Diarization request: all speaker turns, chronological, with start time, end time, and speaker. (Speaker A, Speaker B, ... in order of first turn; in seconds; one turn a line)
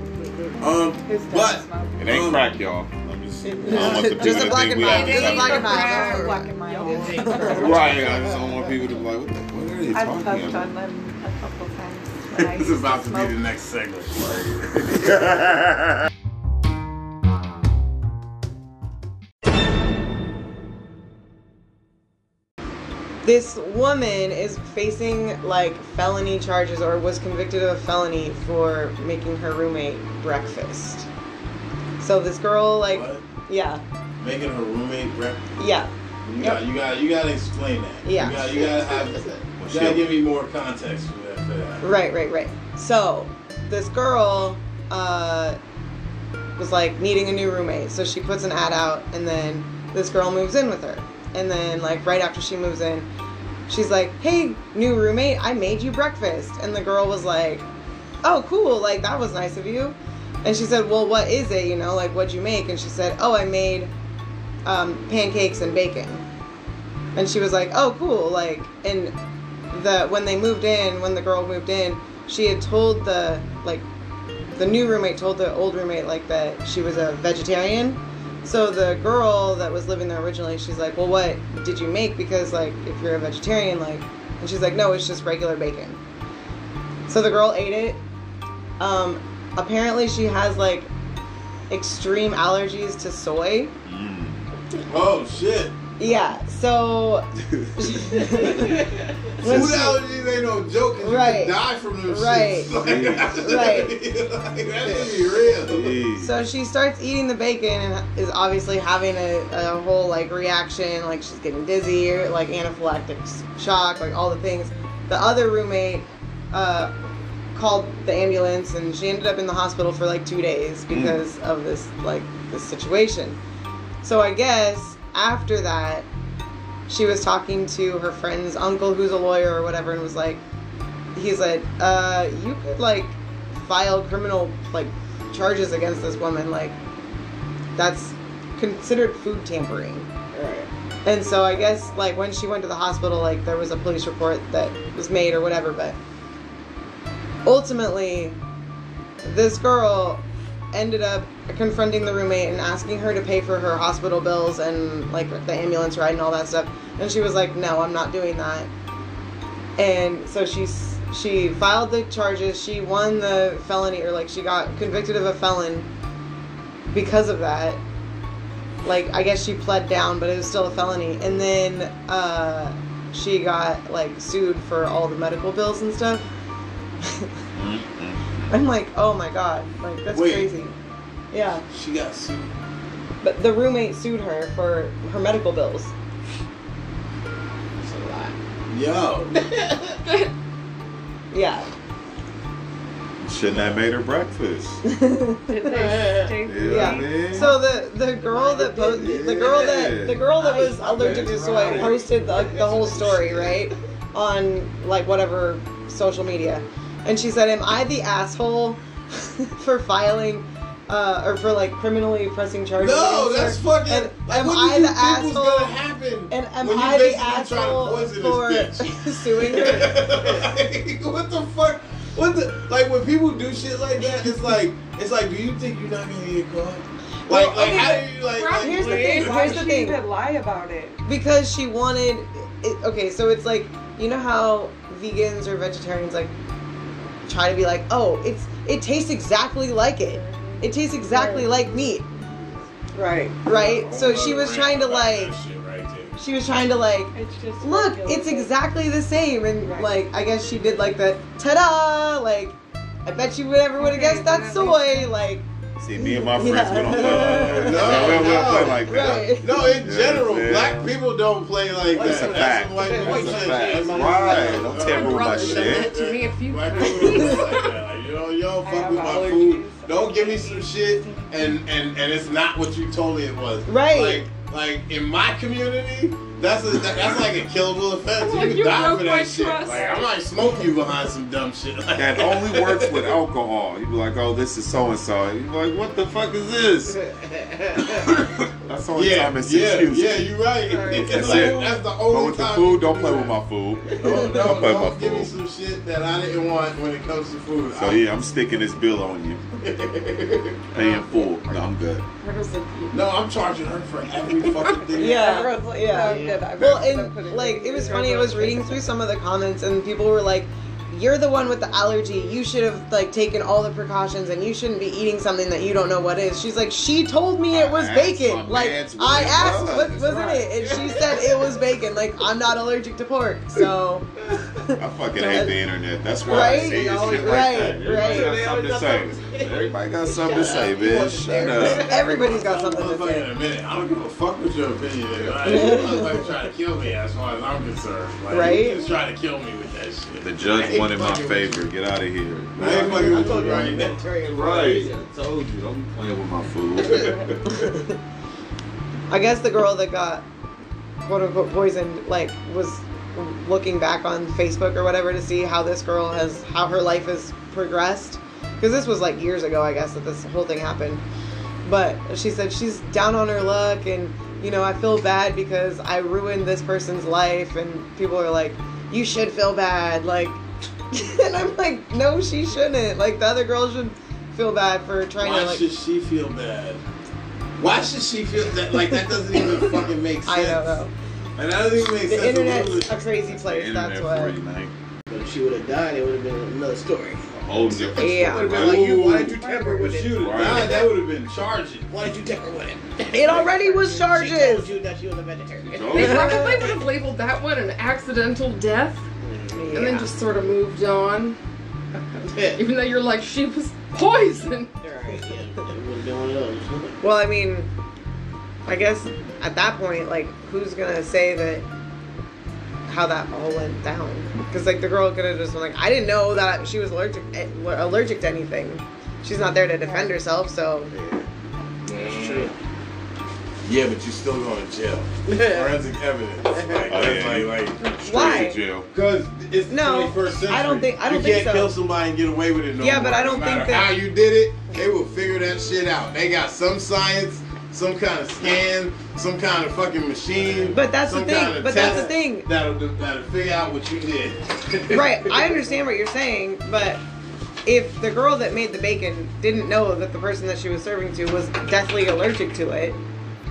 Speaker A: 0.6-2.5
Speaker B: 1.0-2.3
Speaker C: 2.0-5.8
Speaker D: 3.4-7.5
Speaker E: 4.8-6.2
Speaker B: 4.9-8.0
Speaker F: 6.6-8.5
Speaker C: 7.5-10.7
Speaker B: 9.9-13.4
Speaker A: 12.3-15.1
Speaker D: 23.2-31.1
Speaker D: 32.0-33.8
Speaker A: 32.9-33.2
Speaker A: 34.2-35.4
Speaker D: 35.6-36.6
Speaker A: 36.2-41.9
Speaker D: 38.0-38.7
Speaker F: 38.5-39.4
Speaker C: 39.6-40.1
Speaker D: 41.8-45.6
Speaker D: 46.6-53.1
Speaker D: 53.7-57.6
Speaker D: 58.2-63.9
Speaker D: 64.6-66.2
Speaker D: 67.1-69.1
Speaker D: 69.7-73.8
Speaker D: 74.5-86.0
Speaker D: 87.1-88.0
Speaker D: 88.8-90.9
Speaker D: 91.7-93.7
Speaker C: 93.8-94.5
Speaker A: 94.9-95.8
Speaker D: 96.0-98.9
Speaker D: 99.4-100.0
Speaker A: 99.4-106.0
Speaker C: 99.5-99.7
Speaker D: 101.0-104.0
Speaker C: 102.8-103.6
Speaker C: 105.6-106.4
Speaker D: 106.2-116.9
Speaker D: 117.5-123.4
Speaker C: 120.9-121.2
Speaker D: 124.0-126.1
Speaker D: 126.9-130.4
Speaker D: 131.1-136.8
Speaker D: 137.7-140.1
Speaker F: 140.3-140.7
Speaker D: 141.0-146.0
Speaker D: 147.4-148.4
Speaker D: 149.2-158.7
Speaker D: 159.8-165.9
Speaker D: 166.9-167.8
Speaker D: 168.8-176.3
Speaker D: 177.0-177.3
Speaker C: 177.5-178.6
Speaker D: 178.5-180.7
Speaker A: 180.1-180.5
Speaker D: 181.3-181.6
Speaker A: 181.7-182.5
Speaker D: 183.2-185.9
Speaker F: 187.8-188.3
Speaker A: 188.7-189.4
Speaker F: 189.5-189.9
Speaker E: 190.1-190.3
Speaker D: 191.3-191.7
Speaker C: 193.2-194.8
Speaker D: 194.9-195.6
Speaker B: 195.5-199.4
Speaker F: 195.7-196.3
Speaker C: 196.4-197.5
Speaker D: 196.6-215.8
Speaker C: 198.9-200.3
Speaker B: 200.3-202.2
Speaker C: 200.9-202.1
Speaker F: 202.3-203.4
Speaker A: 212.8-229.5
Speaker D: 216.3-220.1
Speaker D: 227.3-230.0
Speaker E: 228.2-229.7
Speaker B: 228.8-231.0
Speaker D: 231.0-236.3
Speaker D: 237.3-242.1
Speaker B: 240.0-241.8
Speaker B: 242.9-243.3
Speaker D: 243.3-245.3
Speaker A: 243.4-246.2
Speaker D: 246.2-255.4
Speaker B: 247.1-248.5
Speaker B: 249.6-250.9
Speaker B: 253.8-255.2
Speaker C: 255.8-260.9
Speaker D: 255.9-259.7
Speaker B: 256.2-256.5
Speaker A: 256.8-283.2
Speaker F: 257.5-258.7
Speaker F: 261.9-265.0
Speaker C: 261.9-266.0
Speaker E: 264.7-267.7
Speaker D: 267.0-267.3
Speaker B: 268.6-271.5
Speaker D: 273.7-274.2
Speaker E: 278.2-280.2
Speaker C: 281.9-287.0
Speaker F: 287.3-287.8
Speaker C: 288.6-295.3
Speaker A: 288.9-293.4
Speaker F: 290.7-291.7
Speaker A: 293.9-298.1
Speaker C: 297.8-299.4
Speaker A: 299.6-300.6
Speaker C: 300.7-302.0
Speaker B: 302.2-302.9
Speaker A: 302.9-305.4
Speaker E: 304.6-304.9
Speaker B: 304.9-308.9
Speaker D: 304.9-324.8
Speaker F: 306.0-306.5
Speaker C: 306.6-306.9
Speaker C: 317.5-320.3
Speaker B: 320.1-320.5
Speaker F: 320.6-321.4
Speaker C: 324.8-332.1
Speaker F: 325.2-325.5
Speaker D: 326.2-328.4
Speaker F: 326.3-332.7
Speaker D: 331.4-333.3
Speaker A: 332.5-341.6
Speaker F: 335.2-335.9
Speaker D: 335.4-336.0
Speaker D: 338.3-338.9
Speaker C: 340.2-347.8
Speaker A: 342.6-344.0
Speaker F: 342.6-345.0
Speaker D: 347.5-347.8
Speaker D: 349.1-350.2
Speaker D: 351.0-361.0
Speaker D: 361.6-370.4
Speaker D: 370.9-375.6
Speaker A: 375.2-376.8
Speaker A: 377.6-380.8
Speaker D: 380.2-380.9
Speaker A: 381.4-382.9
Speaker D: 381.9-384.3
Speaker C: 383.2-384.7
Speaker F: 385.1-390.9
Speaker C: 387.3-389.3
Speaker D: 387.9-388.7
Speaker A: 388.5-391.9
Speaker B: 389.4-390.0
Speaker C: 390.1-390.9
Speaker F: 391.9-396.8
Speaker D: 393.1-394.7
Speaker C: 395.6-396.4
Speaker E: 395.9-399.0
Speaker D: 396.0-396.6
Speaker F: 399.2-399.8
Speaker D: 399.5-400.1
Speaker E: 399.7-401.4
Speaker F: 402.2-402.6
Speaker E: 402.5-404.7
Speaker F: 404.8-407.0
Speaker D: 407.0-407.7
Speaker D: 408.6-411.6
Speaker D: 412.9-420.9
Speaker B: 419.8-420.1
Speaker F: 420.9-421.3
Speaker A: 421.8-422.5
Speaker F: 421.9-422.5
Speaker A: 423.6-427.8
Speaker F: 425.3-425.8
Speaker F: 426.5-427.0
Speaker C: 426.9-428.9
Speaker D: 427.8-428.6
Speaker A: 428.9-445.4
Speaker D: 429.7-431.7
Speaker D: 432.8-434.0
Speaker D: 440.7-442.5
Speaker D: 444.9-447.0
Speaker D: 447.6-453.0